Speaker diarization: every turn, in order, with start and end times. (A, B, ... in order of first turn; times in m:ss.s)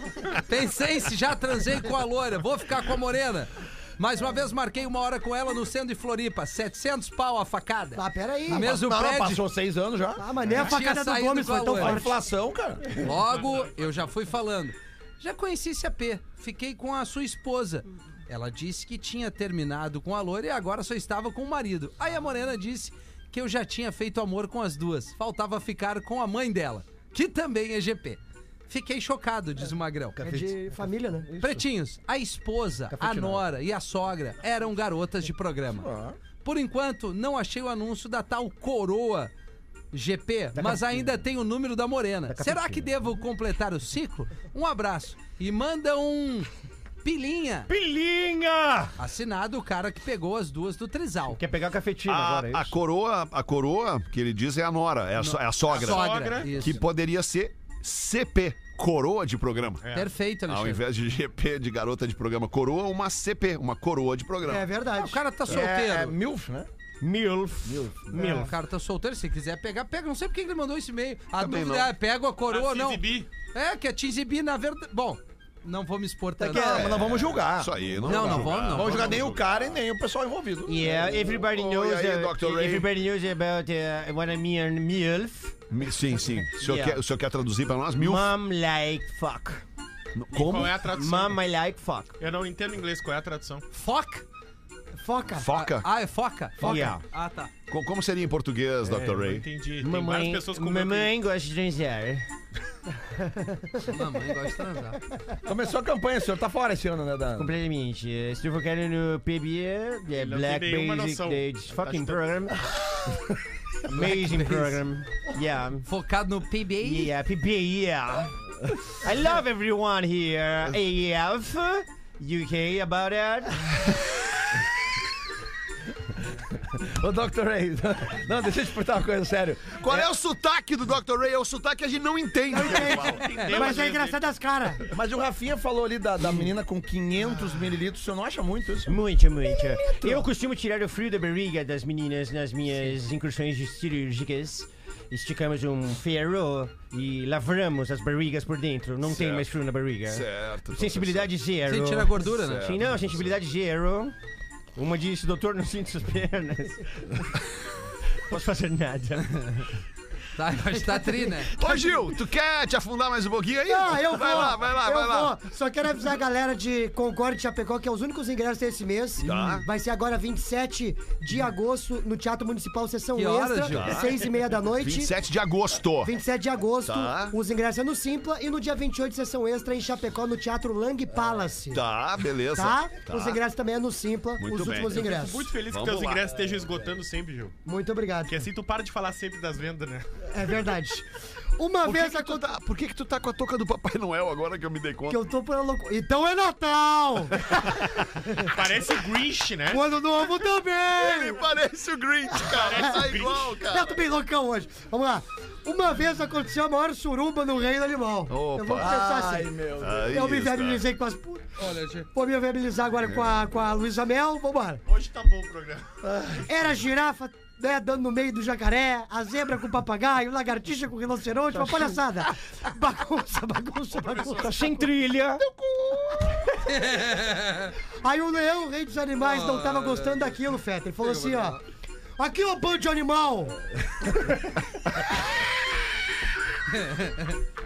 0:00.4-0:09.4 A
0:08.0-0:08.7 B
0:08.5-0:10.5 C
0:10.2-0:12.2 B
0:10.6-0:12.0 A
0:11.8-0:13.0 C
0:13.0-0:30.2 A
0:13.4-0:14.0 D
0:30.2-0:30.5 C
0:30.2-0:31.3 B
0:31.4-0:35.9 A
0:33.0-0:33.3 E
0:35.8-0:36.2 C
0:36.4-0:39.3 A
0:39.9-0:46.5 A
0:42.4-0:42.7 E
0:47.0-0:47.7 A
0:47.7-0:48.9 E
0:49.0-0:51.4 A
0:51.4-0:52.7 E
0:52.1-0:59.8 F
0:55.2-0:56.8 A
0:55.7-0:56.5 D
0:59.8-1:00.1 D
0:59.9-1:00.8 A
1:00.5-1:04.7 F
1:04.4-1:05.2 B
1:05.0-1:06.2 A
1:05.4-1:06.7 C
1:07.0-1:08.5 E
1:07.7-1:08.5 C
1:08.3-1:17.0 A
1:11.4-1:11.9 F
1:12.5-1:13.3 D
1:16.4-1:21.4 C
1:16.5-1:19.6 F
1:18.0-1:19.2 A
1:20.7-1:25.6 G
1:21.5-1:22.9 F
1:25.7-1:28.3 F
1:26.6-1:27.0 G
1:28.0-1:29.6 G
1:30.1-1:30.9 F
1:30.3-1:31.4 D
1:30.9-1:32.1 G
1:32.2-1:33.6 D
1:33.7-1:34.2 A
1:35.0-1:35.5 B
1:35.3-1:35.9 F
1:35.5-1:37.5 A
1:36.6-1:37.0 G
1:36.6-1:36.9 B
1:37.7-1:39.5 F
1:38.9-1:41.1 D
1:39.8-1:42.3 G
1:43.4-1:43.8 B
1:43.8-1:45.0 A
1:45.5-1:47.5 C
1:47.4-1:52.5 G
1:50.1-1:52.5 D
1:53.9-1:55.8 G
1:53.9-1:54.8 A
1:55.8-1:57.1 A
1:56.8-1:58.3 G
1:59.0-2:03.5 G
2:06.8-2:10.0 C
2:09.8-2:13.7 F
2:12.5-2:14.8 B
2:13.1-2:14.2 D
2:13.3-2:13.7 A
2:14.9-2:18.9 C
2:18.9-2:34.2 G
2:19.9-2:20.3 C
2:29.0-2:29.5 F
2:30.0-2:31.3 F
2:31.6-2:32.8 A
2:32.2-2:33.4 F
2:34.8-2:37.3 G
2:38.3-2:39.3 G
2:40.4-2:41.5 A
2:41.6-2:45.4 F
2:43.7-2:55.1 B
2:49.2-2:49.7 F
2:53.1-2:54.0 A
2:53.7-2:54.2 F
2:54.8-2:56.2 F
2:56.0-3:01.8 B
2:56.8-2:57.4 F
3:01.7-3:03.4 F
3:02.5-3:05.5 B
3:04.4-3:05.0 F
3:04.9-3:07.6 D
3:05.6-3:06.4 F
3:07.6-3:08.4 B
3:08.3-3:10.1 D
3:10.3-3:11.1 B
3:11.6-3:12.4 B
3:11.8-3:15.2 F
3:15.1-3:17.5 B
3:18.4-3:19.9 D
3:19.7-3:21.4 B
3:21.0-3:24.0 F
3:22.4-3:23.0 B
3:22.5-3:23.6 D
3:23.6-3:29.6 B
3:28.3-3:28.9 F
3:28.8-3:30.2 C
3:29.8-3:30.8 F
3:30.1-3:31.5 B
3:31.6-3:32.1 A
3:32.1-3:34.8 B
3:33.1-3:33.3 F
3:34.9-3:35.9 D
3:36.0-3:36.5 C
3:36.4-3:44.9 B
3:43.9-3:44.5 D
3:44.4-3:45.4 E
3:45.6-3:46.5 B
3:46.6-3:47.7 A
3:48.0-3:51.6 B
3:49.2-3:50.3 A
3:51.0-3:51.6 A
3:52.2-3:53.6 B
3:56.7-3:57.3 A